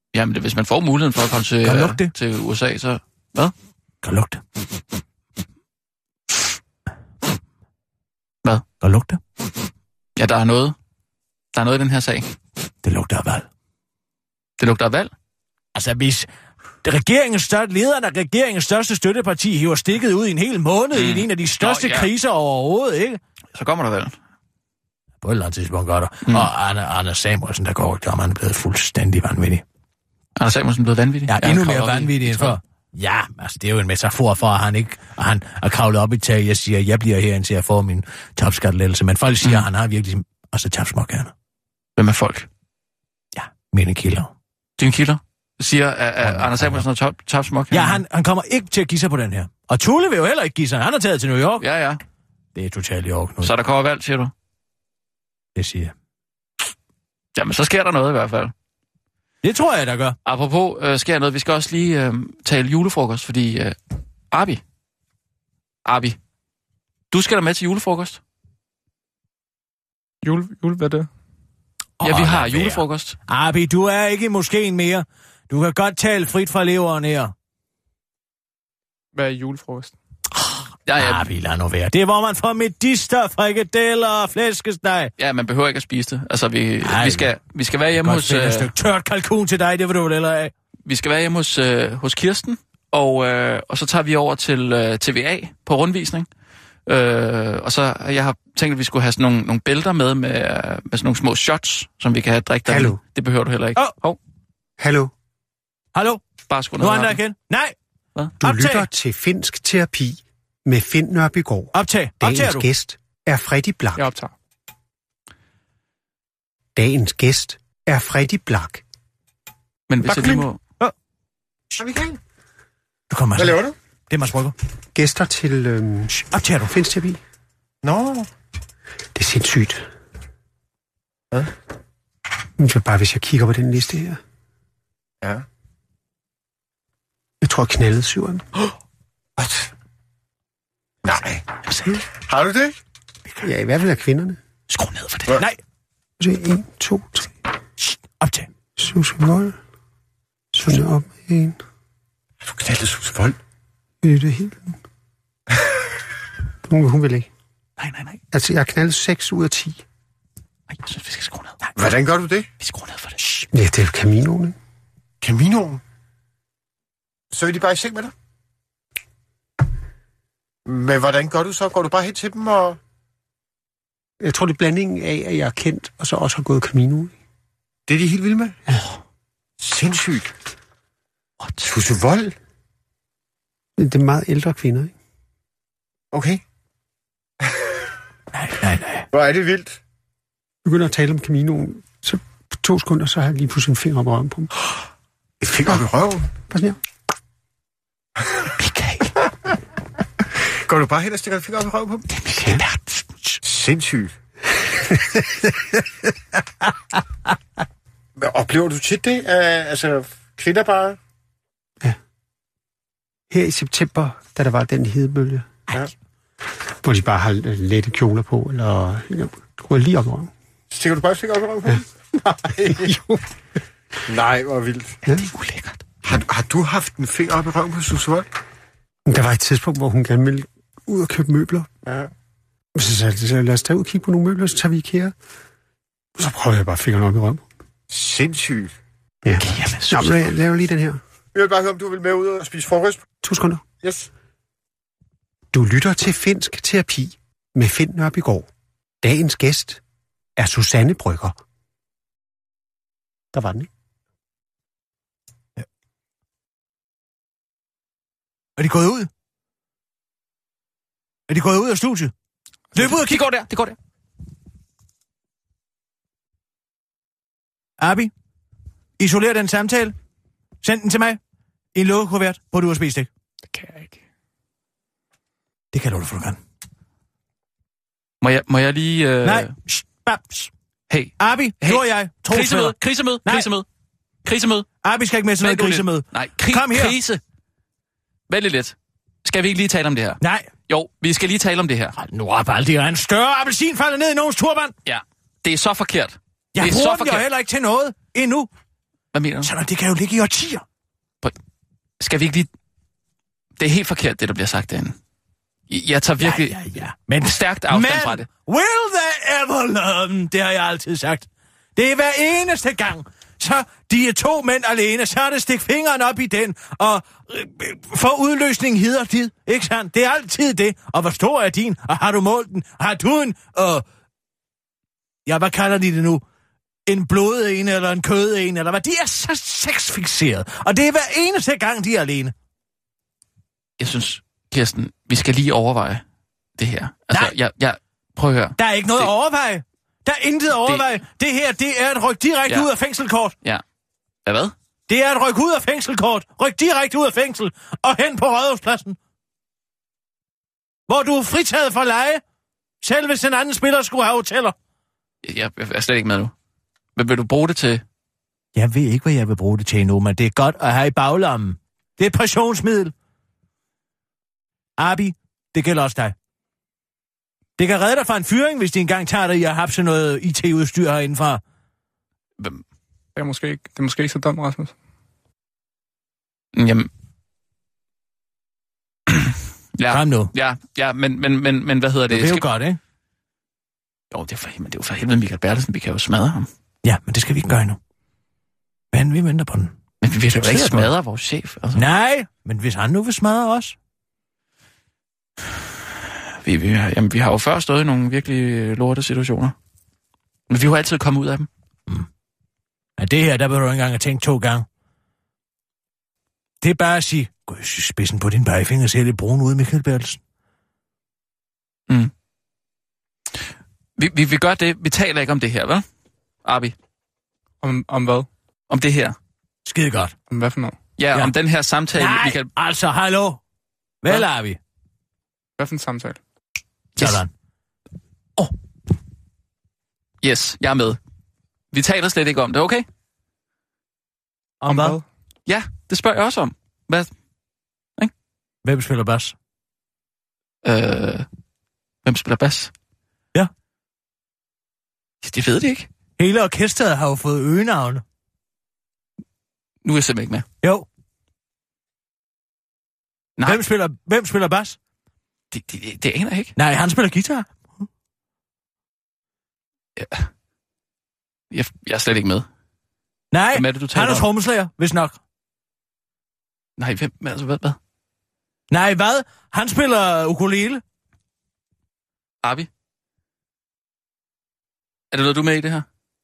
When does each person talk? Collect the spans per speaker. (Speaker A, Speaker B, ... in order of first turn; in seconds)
Speaker A: 0.1-3.5, 10.2-10.8, 11.5-12.3, 14.6-15.1, 20.9-22.1, 23.5-24.1, 30.4-32.6, 42.0-42.5, 44.8-48.0, 51.6-52.0, 53.4-54.3, 57.4-58.5, 60.3-63.8, 64.3-64.6, 65.8-66.2, 67.1-68.2, 72.0-73.2, 80.9-81.2, 85.2-88.7, 90.9-96.3, 96.9-104.2, 106.5-107.2, 119.9-120.6, 144.7-145.4, 157.8-158.2, 160.7-161.7, 162.6-163.5, 198.6-199.1, 202.3-203.0, 225.1-225.8, 239.4-240.3, 262.8-263.8, 278.2-279.5, 280.9-283.6, 284.2-284.7, 285.4-287.2, 288.3-291.9, 294.9-297.2, 299.1-299.5, 302.0-302.5, 303.6-305.0, 305.7-306.6, 307.2-308.3, 333.8-336.0, 336.6-339.1, 344.3-344.5, 355.2-356.3, 357.0-357.8, 376.6-376.9, 379.1-382.4, 384.1-386.5, 390.0-391.8, 396.4-399.6, 400.5-401.5, 414.0-415.8, 416.4-416.8, 418.7-419.2, 421.0-422.5, 430.2-431.0, 431.7-432.9, 435.5-437.1, 440.6-441.3, 442.1-442.7, 445.2-445.9, 449.8-450.4, 455.5-456.6, 460.0-460.3, 461.5-462.4, 463.5-464.3, 466.8-467.8, 472.4-472.7, 475.1-475.9
Speaker B: 1.6-2.1, 4.0-4.4, 8.8-9.2, 12.8-13.5, 15.8-16.3, 16.8-23.2, 25.2-29.6, 31.3-41.3, 43.4-44.3, 46.2-46.9, 47.7-51.6, 52.5-53.5, 55.5-55.9, 59.4-60.2, 72.0-77.3, 81.0-85.1, 86.8-87.3, 87.9-90.5, 106.0-106.2, 106.8-107.8, 108.4-108.9, 111.7-112.7, 120.0-120.9, 123.1-124.5, 126.2-126.8, 147.8-148.5, 188.3-189.1, 258.6-259.1, 261.3-262.1, 262.8-263.2, 267.8-268.1, 269.0-269.9, 270.6-271.2, 271.8-273.1, 275.7-276.4, 279.2-280.5, 281.2-283.5, 284.8-287.0, 290.2-290.5, 292.0-294.7, 296.6-298.5, 299.4-300.6, 306.2-323.8, 325.3-326.2, 326.9-332.3, 338.6-343.4, 344.9-349.0, 350.9-352.2, 352.8-354.6, 358.6-362.9, 364.8-366.1, 367.6-371.4, 379.9-380.3, 382.1-382.8, 386.8-387.8, 388.9-389.7, 390.3-390.9, 391.8-393.8, 403.0-404.7, 406.6-410.2, 419.6-420.1, 421.9-423.4, 424.0-424.6, 427.0-427.3, 434.6-435.0, 438.6-439.4, 446.2-448.0, 453.4-454.8, 456.6-457.5, 463.3-465.2, 468.7-470.8
Speaker C: 70.2-71.1, 79.1-79.9, 114.0-114.3, 273.5-274.0, 373.2-374.7, 417.6-418.3, 420.3-420.8, 425.6-426.2, 434.7-435.1
Speaker D: 102.7-103.0, 104.8-105.1, 108.4-114.1, 116.8-118.8, 125.0-127.2, 129.2-129.8, 132.6-134.2, 137.4-138.5, 143.4-144.4, 146.2-147.3, 148.8-149.6, 150.5-151.6, 154.0-154.8, 156.7-157.3, 158.3-159.8, 163.5-164.6, 174.2-177.1, 183.8-184.9, 190.7-194.5, 196.5-196.8, 213.3-215.5, 216.8-220.3, 222.7-223.2, 229.1-231.7, 232.8-235.1, 236.2-237.4, 239.2-241.0, 243.2-243.6, 245.5-248.5, 249.0-249.8, 250.4-251.3, 253.3-253.7
Speaker E: 121.8-122.2, 123.4-123.8, 127.8-128.3, 139.4-139.7, 141.0-141.4, 142.1-142.8, 152.4-153.4, 161.8-162.5, 165.2-165.8, 167.3-168.1, 170.7-172.8, 177.9-178.6, 179.6-180.3, 181.6-182.3, 186.1-186.4, 189.1-189.8, 195.4-196.3, 200.7-202.1, 203.4-204.1, 208.2-211.0, 220.7-223.0, 224.1-225.0, 226.0-228.3, 237.9-238.8, 241.3-243.1, 243.8-244.1